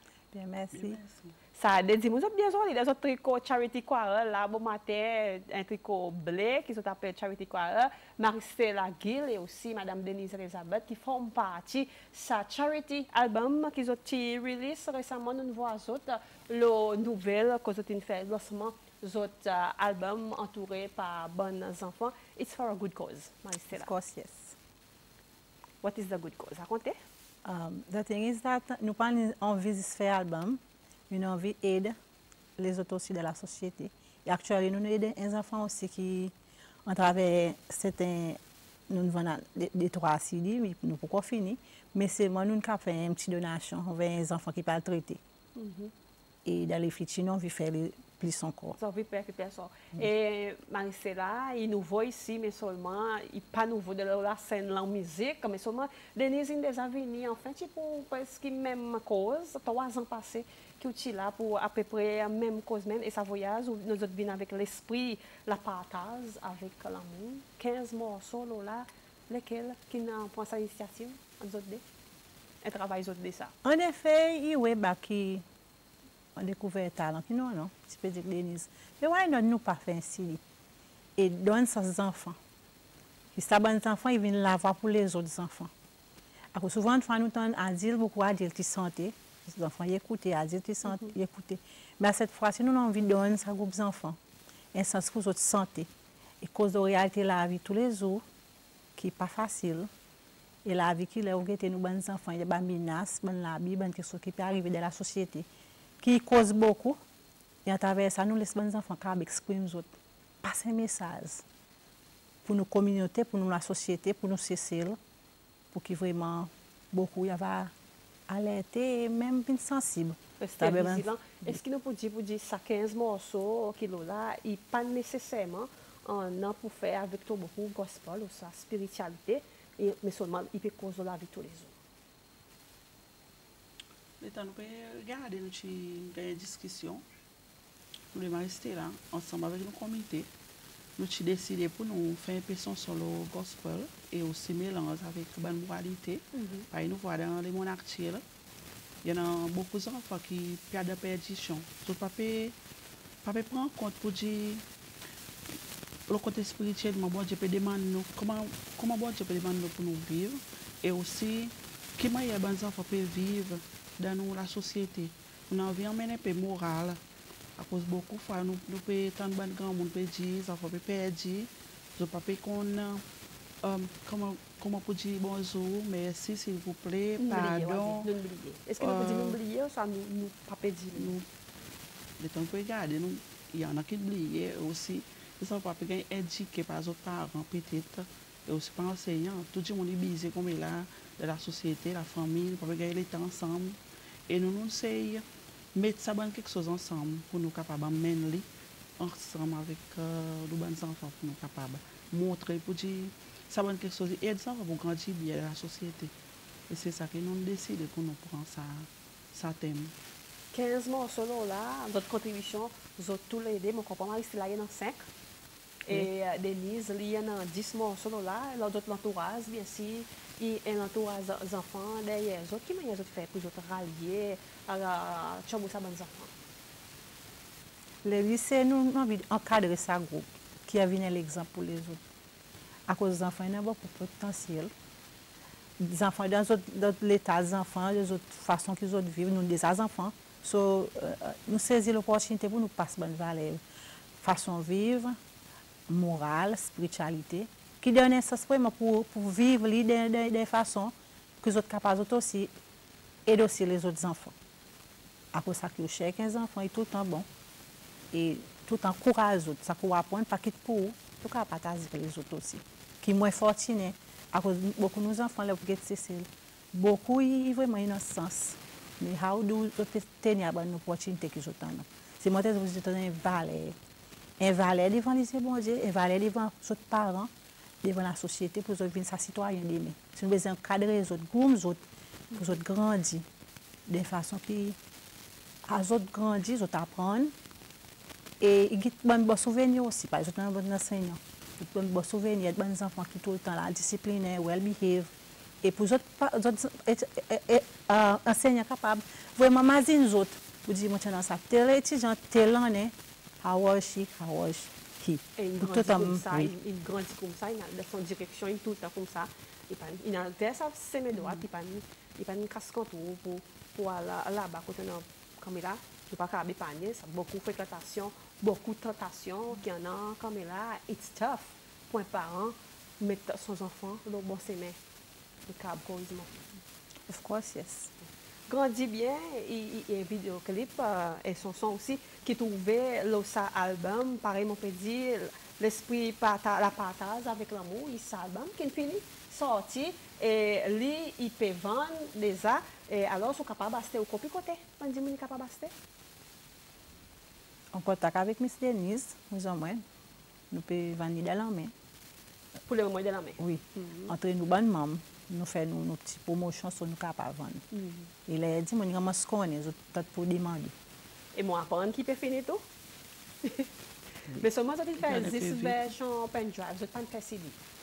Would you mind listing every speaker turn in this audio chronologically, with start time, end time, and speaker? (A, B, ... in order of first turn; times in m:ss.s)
0:00.3-0:01.0 A
0:00.7-0:01.3 B
0:01.5-0:23.9 C
0:23.7-0:24.6 A
0:25.8-0:27.0 C
0:27.4-0:32.0 A
0:32.6-0:36.3 A
0:36.8-0:45.2 A
0:45.6-0:45.9 C
0:46.4-0:48.8 A
0:48.8-1:11.8 C
1:12.6-1:13.5 C
1:13.6-1:15.4 A
1:16.3-1:20.4 A
1:21.2-1:22.4 A
1:23.3-1:25.7 A
1:26.5-1:34.2 A
1:34.7-1:35.9 A
1:36.4-1:38.2 A
1:39.0-1:39.9 A
1:40.6-1:45.5 A
1:46.0-1:47.0 A
1:47.6-1:49.9 A
1:50.4-1:51.4 A
1:52.4-1:55.0 A
1:55.7-1:57.7 A
1:58.3-2:01.6 A
2:00.4-2:11.8 C
2:14.2-2:17.0 B
2:18.1-2:20.3 B
2:21.0-2:28.2 B
2:26.3-2:26.7 C
2:29.0-2:32.6 B
2:33.2-2:34.6 B
2:36.1-2:47.0 B
2:47.6-2:53.0 B
2:53.6-2:58.1 B
2:57.2-3:01.2 C
2:58.8-2:59.4 B
3:00.9-3:01.3 B
3:02.2-3:26.1 B
3:26.7-3:29.9 B
3:30.5-3:35.1 C
3:35.8-3:46.3 C
3:48.0-3:52.0 A
3:52.9-3:54.7 A
3:55.8-4:03.6 A
4:04.2-4:05.2 A
4:05.9-4:12.5 A
4:13.2-4:14.3 A
4:15.3-4:17.3 A
4:18.1-4:33.8 A
4:34.4-4:37.3 A
4:37.8-4:43.2 A
4:43.9-4:44.8 A
4:45.6-4:47.3 A
4:48.4-5:06.5 A
5:05.4-5:24.8 C
5:25.5-5:26.3 C
5:27.0-5:27.9 A
5:28.5-5:45.7 C
5:47.7-5:49.8 A
5:50.5-5:51.7 A
5:52.6-5:54.1 C
5:53.4-5:57.6 A
5:57.7-5:58.1 C
5:58.2-6:00.7 A
6:01.3-6:02.6 C
6:03.4-6:03.7 C
6:04.3-6:07.6 C
6:05.0-6:05.8 B